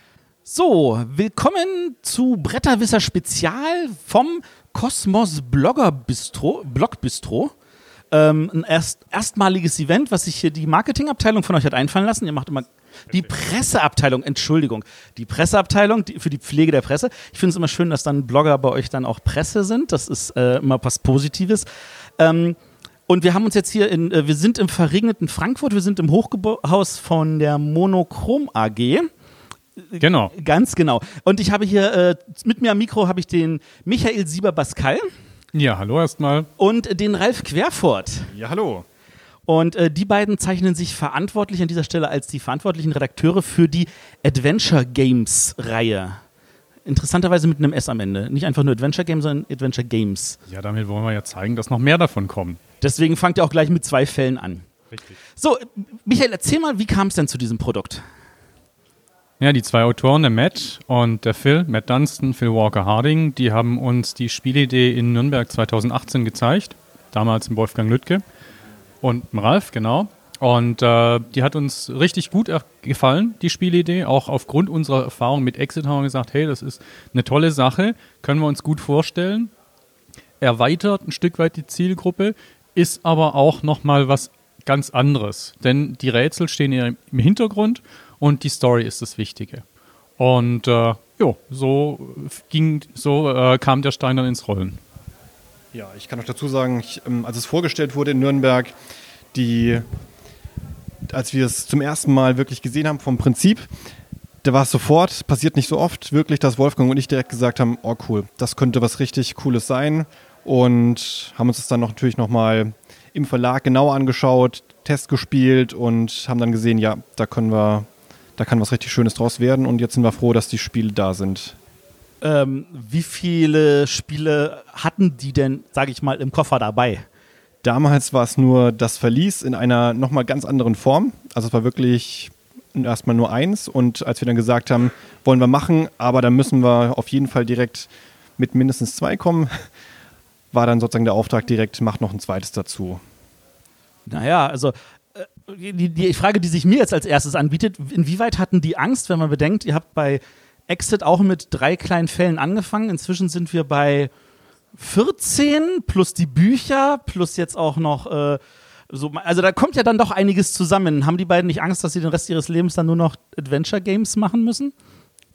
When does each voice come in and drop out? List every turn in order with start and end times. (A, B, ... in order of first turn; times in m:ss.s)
0:00.5-0:07.5 A
0:08.1-0:21.7 A
0:22.2-0:29.1 A
0:29.9-0:35.1 A
0:30.0-0:30.3 B
0:35.5-0:36.5 B
0:36.6-0:38.3 A
0:38.3-0:38.9 C
0:39.5-0:46.2 A
0:46.9-0:50.4 A
0:50.5-0:52.6 B
0:52.8-0:54.7 A
0:55.4-0:58.0 A
0:59.4-1:08.2 B
1:09.0-1:19.5 B
1:20.4-1:29.6 B
1:30.2-1:34.8 B
1:35.7-1:38.7 C
1:39.3-1:39.9 C
1:41.1-1:43.7 C
1:44.4-2:01.6 C
2:02.2-2:07.0 A
2:07.6-2:19.7 C
2:20.5-2:23.0 C
2:24.1-2:34.1 A
2:34.8-2:44.7 A